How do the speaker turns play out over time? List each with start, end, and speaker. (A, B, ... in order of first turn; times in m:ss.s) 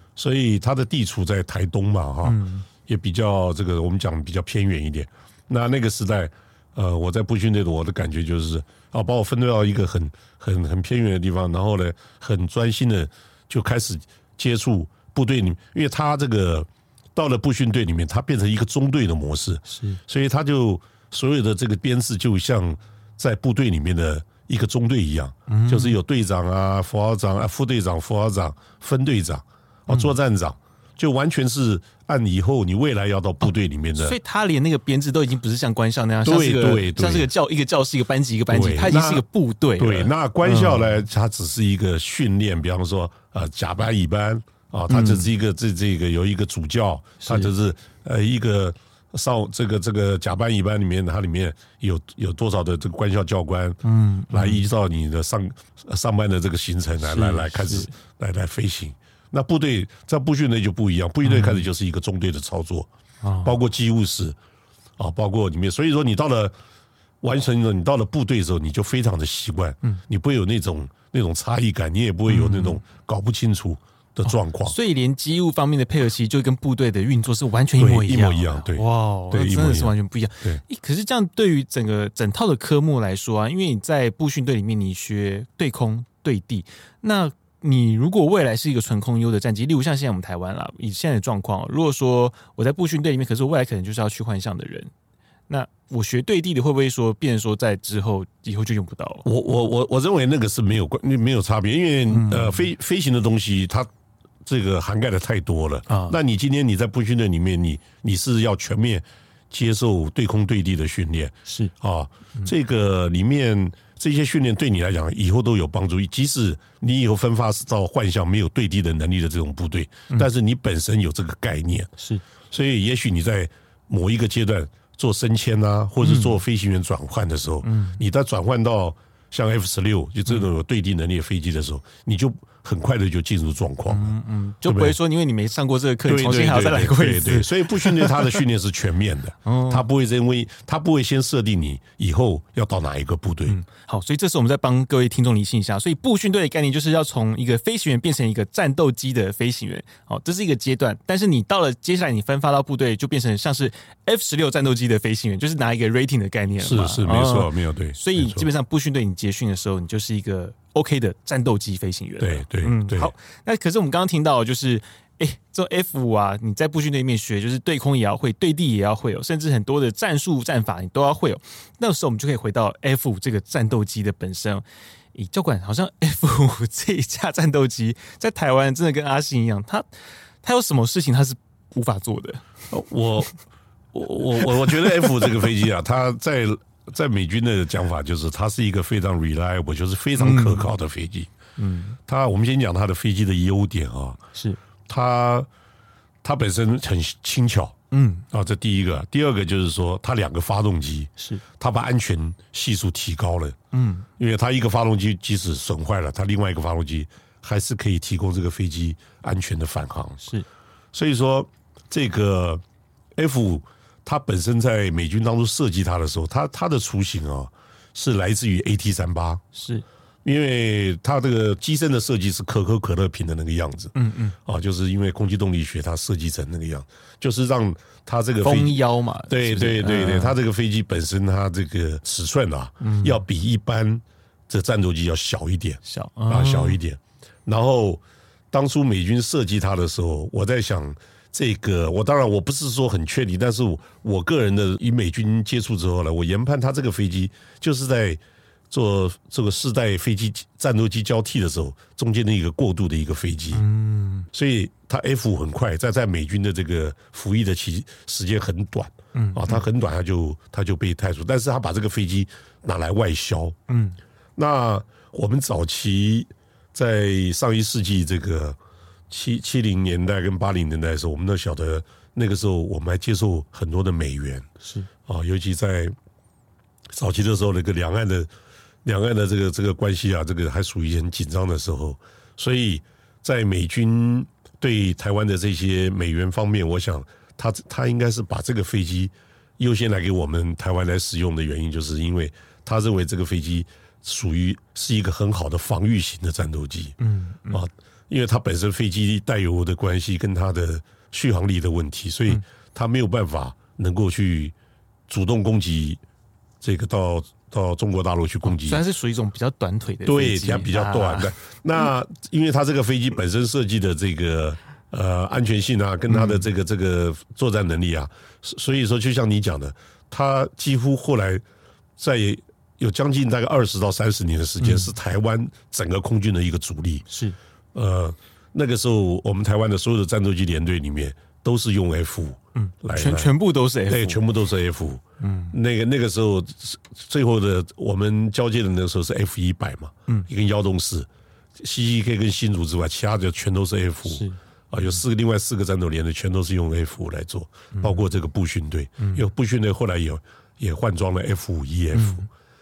0:00.2-0:34.2 A
0:02.2-0:02.7 B
0:19.7-0:20.0 B
0:25.5-0:26.0 B
0:29.9-0:30.1 B
0:34.0-0:41.0 B
0:36.2-0:37.3 A
0:38.5-0:39.2 A
0:39.8-0:53.8 A
0:44.9-0:45.3 B
0:47.2-0:47.5 B
0:53.8-0:54.6 B
0:54.3-1:02.9 A
0:57.0-0:57.9 B
1:01.2-1:01.7 B
1:03.2-1:03.5 B
1:03.4-1:04.4 A
1:05.0-1:06.5 A
1:07.2-1:14.8 A
1:12.3-1:12.8 B
1:14.3-1:34.9 B
1:17.8-1:20.6 A
1:35.5-1:39.3 B
1:39.2-1:43.9 A
1:42.1-1:42.6 B
1:44.5-2:01.9 A
1:45.9-1:46.2 B
1:51.5-1:51.7 B
2:02.5-2:15.0 A
2:06.0-2:06.4 B
2:07.6-2:08.0 B
2:13.9-2:18.4 B
2:16.1-2:23.6 A
2:19.4-2:19.8 B
2:23.5-2:59.9 B
2:36.6-2:38.5 A
2:42.2-2:43.1 A
3:00.4-3:02.4 B
3:02.7-3:03.4 A
3:03.9-3:11.3 A
3:04.7-3:05.4 B
3:10.2-3:10.7 B
3:11.6-3:12.0 B
3:12.1-3:14.2 A
3:14.9-3:15.5 A
3:16.2-3:17.8 A
3:17.9-3:18.2 B
3:18.3-3:23.6 A
3:23.7-3:24.1 B
3:24.2-3:30.3 A
3:30.9-3:32.6 A
3:33.2-3:39.4 A
3:39.6-3:39.8 B
3:40.2-4:13.6 A
3:44.0-3:44.4 B
3:48.4-3:50.4 B
3:52.8-3:53.2 B
3:55.8-3:56.8 B
4:13.5-4:14.3 B
4:14.3-4:23.6 A
4:19.1-4:19.6 B
4:23.7-4:24.0 B
4:24.4-4:28.6 A
4:29.1-4:34.5 A
4:34.6-4:34.9 B
4:35.1-4:35.9 A
4:36.9-4:38.3 A
4:38.8-4:57.0 A
4:57.0-4:57.6 B
4:57.5-5:04.5 A
5:05.1-5:06.0 A
5:06.6-5:08.8 A
5:08.4-5:11.3 B
5:10.0-5:21.4 A
5:16.1-5:16.5 B
5:22.0-5:27.1 A
5:24.6-5:24.9 B
5:27.1-5:27.4 B
5:27.7-5:33.3 A
5:32.6-5:34.2 B
5:33.9-5:52.3 A
5:35.2-5:35.6 B
5:44.1-5:44.4 B
5:47.7-5:48.0 B
5:49.0-5:49.2 B
5:51.9-5:52.3 B